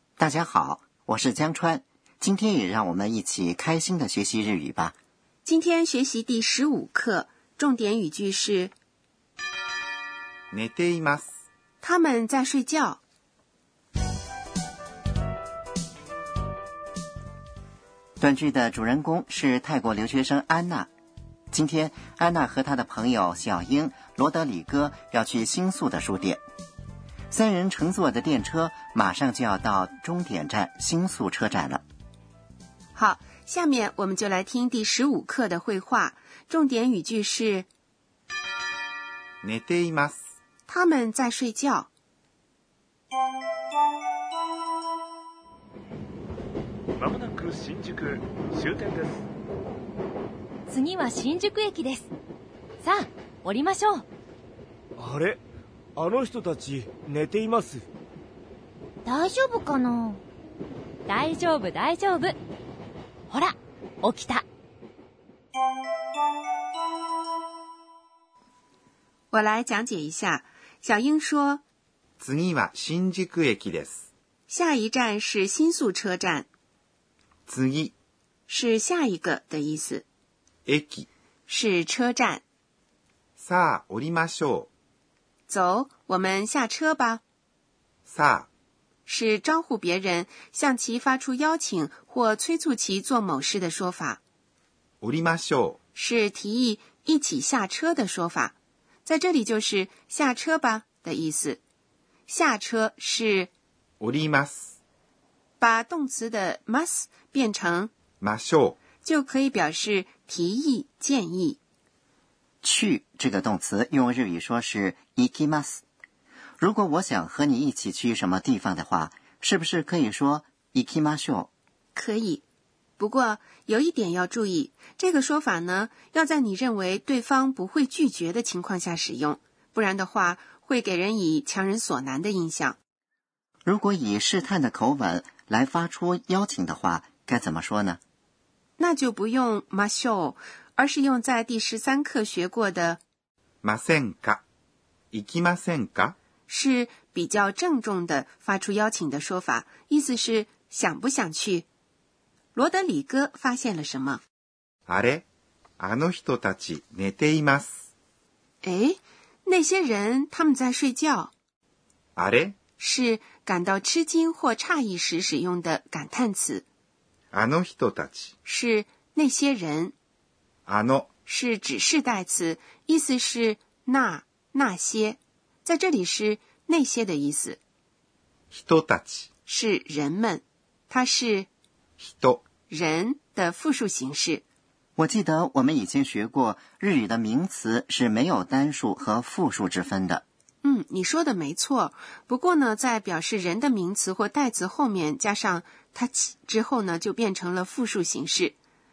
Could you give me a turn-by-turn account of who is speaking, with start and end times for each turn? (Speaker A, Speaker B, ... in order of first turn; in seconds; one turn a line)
Speaker A: 0.2-5.0
Speaker B: 5.5-8.7
Speaker C: 10.5-11.3
Speaker B: 11.8-13.0
Speaker A: 18.2-20.9
Speaker A: 21.5-26.4
Speaker A: 27.3-31.8
Speaker B: 33.0-37.7
Speaker C: 39.4-40.2
Speaker B: 40.7-41.9
Speaker D: 47.0-49.3
Speaker E: 50.7-52.1
Speaker E: 52.8-54.0
Speaker F: 55.0-55.4
Speaker F: 56.0-57.8
Speaker E: 59.0-60.2
Speaker E: 61.1-62.4
Speaker E: 63.3-64.4
Speaker B: 69.3-71.6
Speaker C: 72.2-74.0
Speaker B: 74.5-76.5
Speaker C: 77.5-77.9
Speaker B: 78.5-80.0
Speaker C: 80.7-81.1
Speaker B: 81.5-82.4
Speaker C: 83.4-84.7
Speaker B: 85.5-87.2
Speaker C: 88.1-88.5
Speaker B: 89.1-94.2
Speaker C: 95.0-95.8
Speaker B: 96.0-101.6
Speaker B: 102.3-103.5
Speaker C: 104.0-104.8
Speaker B: 105.6-107.9
Speaker C: 108.2-108.8
Speaker B: 109.0-111.6
Speaker A: 112.6-115.8
Speaker A: 116.6-121.5
Speaker B: 122.0-122.4
Speaker B: 123.0-132.8
Speaker A: 133.7-138.0
Speaker B: 138.8-143.0
Speaker C: 143.6-144.4
Speaker C: 145.1-146.2
Speaker B: 146.5-151.7
Speaker B: 152.6-154.2
Speaker C: 154.9-155.3
Speaker C: 155.8-157.8
Speaker B: 158.6-161.3
Speaker C: 162.2-162.6
Speaker B: 162.8-166.7
Speaker C: 167.3-168.3
Speaker B: 168.4-169.9
Speaker C: 170.7-171.1
Speaker B: 171.3-177.6
Speaker C: 178.5-179.3
Speaker B: 179.5-181.5
Speaker C: 182.0-182.4
Speaker B: 182.7-184.4
Speaker A: 185.0-190.2
Speaker B: 190.6-198.6